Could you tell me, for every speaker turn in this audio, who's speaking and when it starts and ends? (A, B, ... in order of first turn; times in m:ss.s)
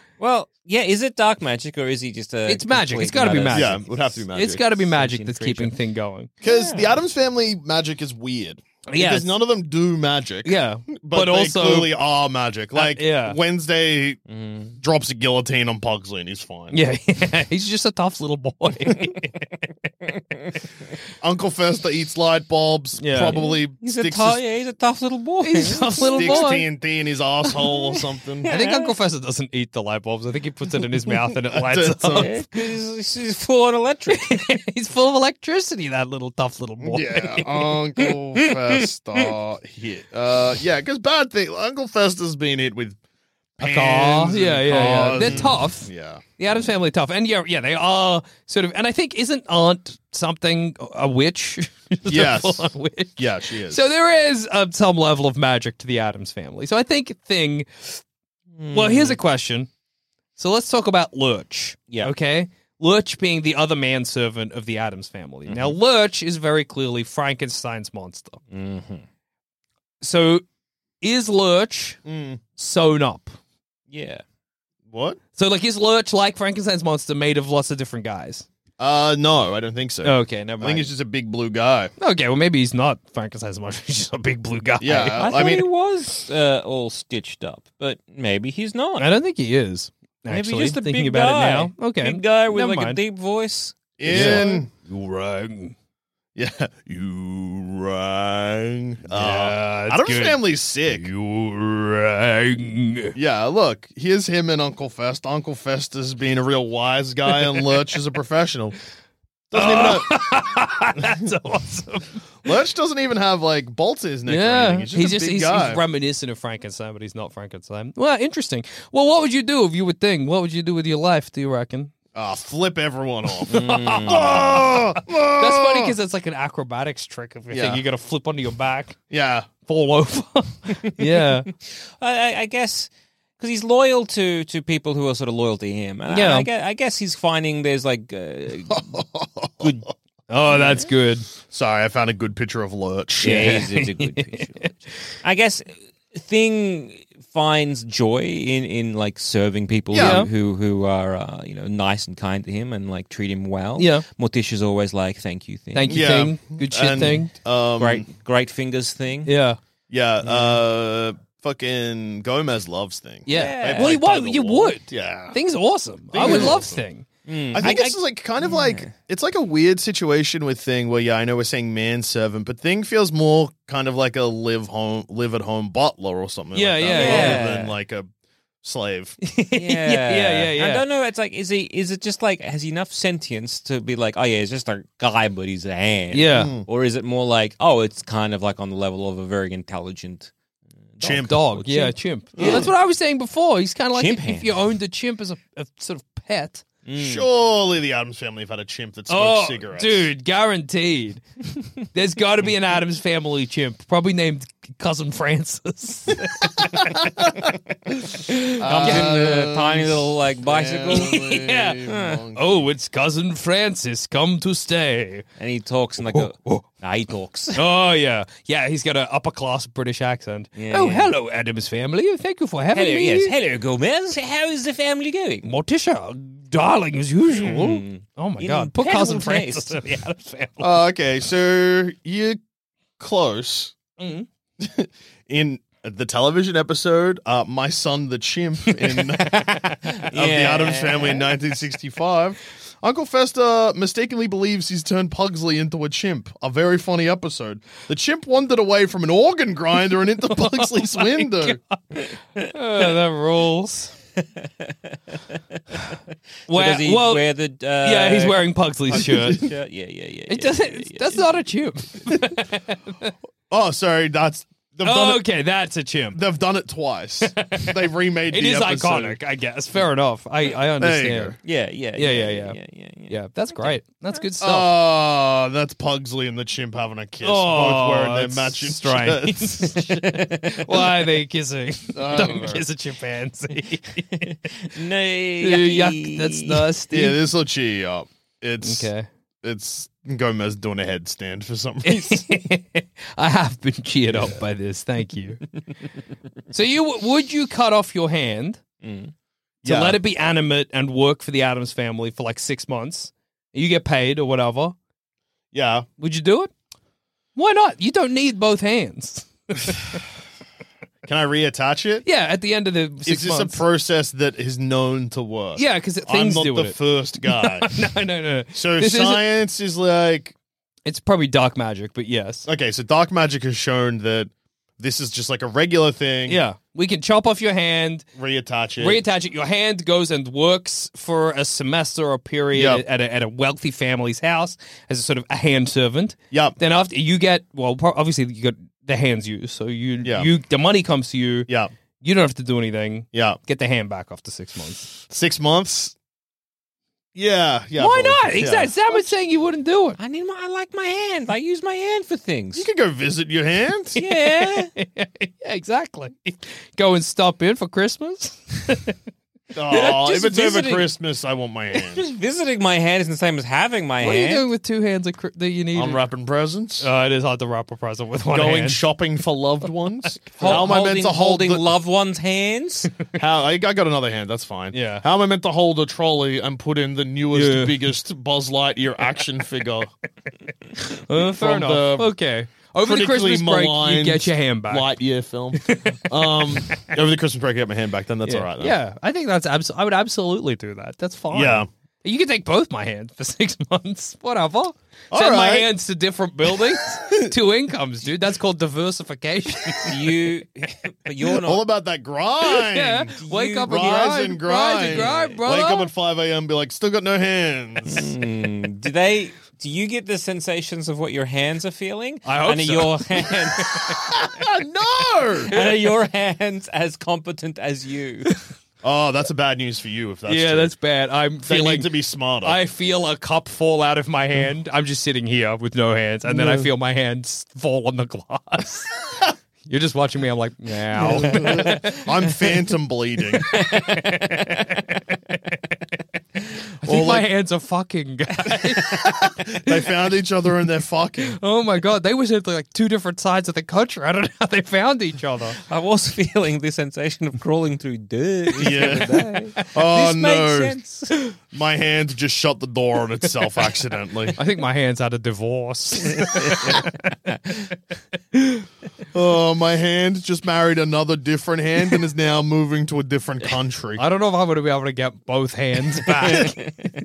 0:00.2-0:03.8 A
0:02.5-0:06.3 B
0:03.5-0:04.7 C
0:04.7-0:05.7 A
0:06.4-0:14.2 C
0:06.4-0:07.0 A
0:08.9-0:09.3 B
0:10.4-0:11.9 B
0:12.8-0:13.4 B
0:14.3-0:14.8 A
0:14.8-0:16.8 C
0:16.7-0:19.4 B
0:21.2-0:24.4 C
0:23.0-0:23.4 B
0:23.3-0:26.6 A
0:25.4-0:26.7 B
0:26.0-0:28.5 C
0:28.5-0:32.4 B
0:28.5-0:28.9 A
0:31.5-0:32.3 C
0:32.1-0:34.4 A
0:34.1-0:37.4 B
0:36.8-0:43.0 C
0:38.1-0:38.6 A
0:43.6-0:46.2 C
0:43.6-0:58.0 B
0:45.2-0:45.5 A
0:52.1-0:53.9 C
0:58.6-0:59.2 A
0:58.7-0:59.7 B
1:00.4-1:08.4 B
1:05.5-1:05.8 A
1:08.5-1:09.0 A
1:10.0-1:10.4 B
1:11.0-1:12.0 B
1:12.1-1:12.4 C
1:12.6-1:13.4 B
1:13.9-1:14.2 A
1:14.9-1:15.2 C
1:15.4-1:18.5 B
1:18.8-1:21.9 C
1:20.0-1:20.9 B
1:22.0-1:25.2 B
1:24.8-1:25.6 C
1:25.2-1:29.1 A
1:29.0-1:33.0 B
1:30.3-1:34.5 A
1:34.0-1:34.7 C
1:34.1-1:35.8 B
1:36.4-1:41.1 C
1:39.1-1:43.1 B
1:43.2-1:48.8 C
1:49.5-1:50.2 C
1:49.5-1:52.2 B
1:52.4-1:55.8 C
1:54.3-2:01.9 B
2:02.1-2:05.9 C
2:03.5-2:04.5 A
2:03.8-2:04.5 B
2:05.3-2:09.0 B
2:07.5-2:07.8 C
2:09.1-2:09.5 C
2:09.6-2:11.5 B
2:10.8-2:18.9 A
2:16.1-2:16.5 B
2:18.7-2:19.8 C
2:19.6-2:19.9 A
2:20.3-2:21.3 B
2:21.4-2:23.5 C
2:23.2-2:24.7 A
2:23.2-2:25.2 B
2:25.2-2:36.1 A
2:29.9-2:30.3 C
2:29.9-2:30.3 B
2:33.8-2:34.0 B
2:35.7-2:37.3 B
2:35.9-2:38.1 C
2:37.8-2:39.3 A
2:39.3-2:39.6 B
2:39.9-2:45.4 C
2:40.3-2:40.6 A
2:43.3-2:47.1 B
2:43.3-2:44.0 A
2:46.1-2:46.8 C
2:46.2-2:46.6 A
2:47.3-2:48.9 A
2:47.6-2:58.1 C
2:56.5-2:57.5 B
2:56.9-2:57.7 A
2:58.6-2:59.2 C
2:59.2-3:00.8 B
2:59.5-3:10.3 A
3:06.1-3:06.6 B
3:06.3-3:06.7 C
3:11.0-3:12.7 A
3:11.0-3:11.5 C
3:11.1-3:16.7 B
3:12.4-3:12.7 C
3:13.9-3:14.6 A
3:16.9-3:17.3 A
3:17.0-3:20.1 C
3:19.1-3:21.2 B
3:21.9-3:27.0 B
3:28.3-3:29.2 B
3:28.6-3:32.7 C
3:28.6-3:31.2 A
3:30.9-3:31.8 B
3:31.9-3:32.2 A
3:32.4-3:35.2 B
3:35.4-3:37.6 A
3:36.1-3:36.6 B
3:37.5-3:43.3 B
3:40.6-3:41.1 A
3:42.7-3:45.5 A
3:45.4-3:50.7 B
3:47.3-3:47.6 C
3:47.4-3:49.8 A
3:50.6-3:52.4 C
3:53.0-3:53.8 C
3:54.0-3:54.3 B
3:54.6-3:59.4 C
3:59.3-4:01.3 A
4:00.1-4:11.6 C
4:10.4-4:11.6 B
4:12.0-4:12.5 A
4:12.4-4:13.9 B
4:14.4-4:15.2 A
4:16.5-4:17.3 B
4:16.5-4:21.3 A
4:17.8-4:19.5 B
4:19.0-4:19.4 C
4:20.3-4:23.1 B
4:23.5-4:25.2 C
4:24.8-4:26.2 B
4:26.1-4:29.2 C
4:27.4-4:27.8 B
4:28.3-4:31.4 B
4:30.8-4:31.4 C
4:31.4-4:34.2 A
4:32.0-4:32.6 B
4:33.1-4:34.7 B
4:34.4-4:39.6 C
4:37.2-4:44.3 B
4:39.6-4:41.1 A
4:42.0-4:42.6 C
4:42.1-4:42.5 A
4:44.0-4:46.7 A
4:45.4-4:47.2 B
4:46.9-4:48.9 C
4:48.6-4:49.1 B
4:49.4-4:52.2 C
4:51.8-4:55.4 B
4:56.5-4:58.6 B
4:58.8-4:59.1 A
4:59.6-5:04.8 B
4:59.6-5:00.0 C
5:05.5-5:05.9 C
5:06.0-5:06.5 B
5:07.4-5:10.0 B
5:11.1-5:12.0 C
5:12.1-5:13.6 B
5:13.0-5:17.7 C
5:15.6-5:19.3 B
5:18.6-5:20.4 C
5:20.9-5:22.5 B
5:22.5-5:26.4 C
5:26.3-5:28.1 B
5:28.2-5:29.0 C
5:28.8-5:41.5 B
5:32.5-5:32.8 C
5:36.3-5:36.6 C
5:40.0-5:40.3 C
5:42.0-5:44.9 B
5:43.1-5:43.4 C
5:45.1-5:46.0 C
5:47.2-5:49.1 C
5:47.8-5:50.0 B
5:50.0-5:52.7 A
5:52.6-5:53.9 C
5:54.0-5:59.0 B
5:54.0-5:54.7 A
5:59.5-6:02.0 C
5:59.7-6:00.9 A
6:01.9-6:04.4 A
6:04.0-6:06.0 B
6:05.7-6:06.9 C
6:06.8-6:08.8 B
6:08.3-6:11.6 C
6:10.4-6:10.7 B
6:10.4-6:12.9 A
6:13.2-6:19.9 C
6:14.7-6:15.0 B
6:17.3-6:17.8 B
6:20.9-6:24.9 B
6:21.2-6:22.2 C
6:22.8-6:28.8 C
6:25.6-6:26.8 B
6:28.3-6:40.0 B
6:31.3-6:31.7 C
6:35.1-6:35.7 C
6:39.9-6:41.6 A
6:41.4-6:48.1 C
6:42.6-6:45.9 B
6:43.2-6:44.0 A
6:44.9-6:45.4 A
6:47.9-6:53.9 A
6:52.2-6:53.9 B
6:53.9-6:55.6 C
6:55.5-6:58.3 A
6:58.8-7:00.7 C
7:00.3-7:08.9 B
7:01.5-7:02.6 C
7:06.3-7:06.7 C
7:09.7-7:12.3 B
7:11.0-7:13.5 C
7:11.1-7:12.0 A
7:13.5-7:14.5 A
7:13.6-7:15.7 B
7:16.8-7:19.8 B
7:16.8-7:17.3 C
7:19.0-7:21.4 C
7:21.3-7:25.6 B
7:25.6-7:31.1 A
7:28.6-7:30.8 C
7:31.5-7:34.4 C
7:34.4-7:36.9 B
7:36.2-7:36.8 A
7:38.4-7:38.6 B
7:39.1-7:44.0 C
7:44.0-7:46.7 B
7:46.0-7:46.7 A